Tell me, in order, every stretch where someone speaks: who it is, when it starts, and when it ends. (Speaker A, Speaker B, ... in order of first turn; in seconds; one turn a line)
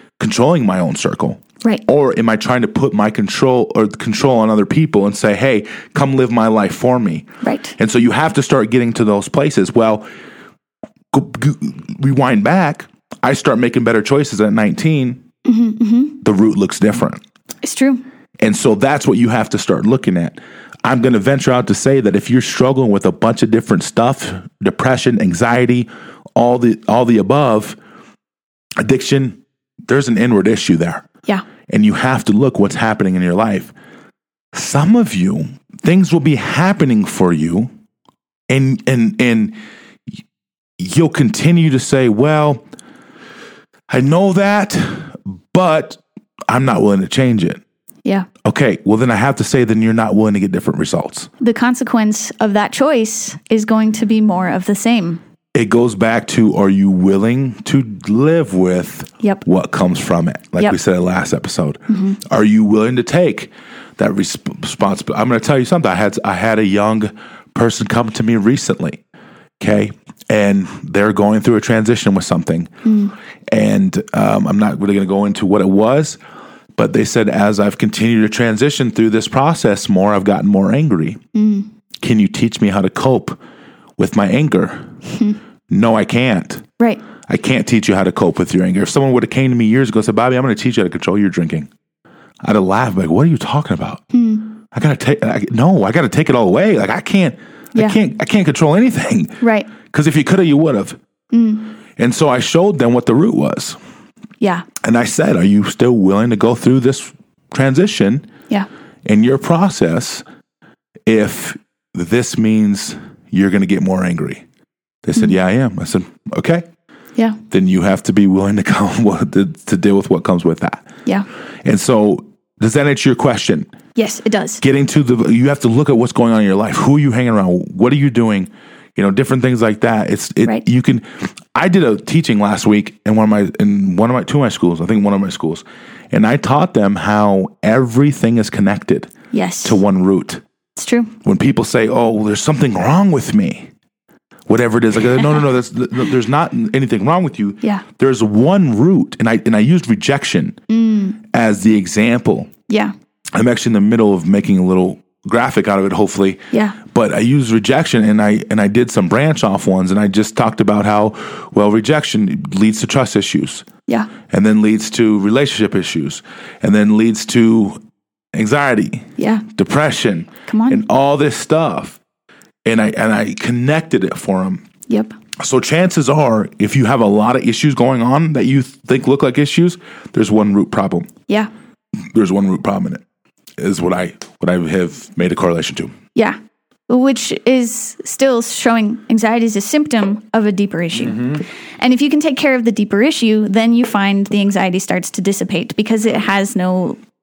Speaker A: 0.2-10.0
Speaker B: 7.4-7.7
Speaker A: 11.1-15.2
Speaker B: 15.4-16.2
Speaker A: 16.2-17.2
Speaker B: 17.6-18.0
Speaker A: 18.4-27.8
Speaker A: 28.8-31.1
Speaker A: 31.7-33.7
Speaker A: 34.5-37.7
Speaker A: 38.5-39.6
Speaker A: 40.8-42.6
Speaker A: 43.9-47.6
Speaker A: 48.4-51.3
Speaker B: 51.4-55.2
Speaker A: 55.5-69.0
Speaker B: 61.9-62.2
Speaker A: 69.6-72.8
Speaker B: 72.8-73.1
Speaker A: 73.5-76.2
Speaker A: 76.8-81.2
Speaker B: 81.3-81.7
Speaker A: 82.0-83.4
Speaker A: 84.0-84.9
Speaker B: 85.1-85.4
Speaker A: 85.7-86.7
Speaker A: 87.3-91.7
Speaker A: 92.4-94.0
Speaker B: 94.1-94.5
Speaker A: 94.7-101.0
Speaker B: 99.4-99.7
Speaker B: 101.3-101.7
Speaker A: 102.0-103.8
Speaker B: 104.4-104.7
Speaker A: 104.8-108.3
Speaker A: 109.0-110.2
Speaker A: 111.1-114.4
Speaker A: 115.0-116.7
Speaker A: 117.5-120.9
Speaker A: 121.6-123.7
Speaker B: 124.0-124.6
Speaker A: 124.6-139.1
Speaker B: 139.3-139.8
Speaker A: 139.6-140.4
Speaker B: 140.8-141.1
Speaker A: 141.2-143.7
Speaker A: 144.5-150.6
Speaker B: 150.7-151.2
Speaker A: 151.3-152.5
Speaker A: 153.3-163.7
Speaker B: 156.5-156.8
Speaker A: 164.3-167.8
Speaker A: 168.3-172.0
Speaker B: 169.2-169.4
Speaker B: 170.5-170.8
Speaker A: 172.7-174.6
Speaker B: 174.9-175.1
Speaker A: 175.4-181.1
Speaker A: 182.1-183.0
Speaker A: 183.6-185.9
Speaker B: 186.9-197.0
Speaker A: 191.0-191.4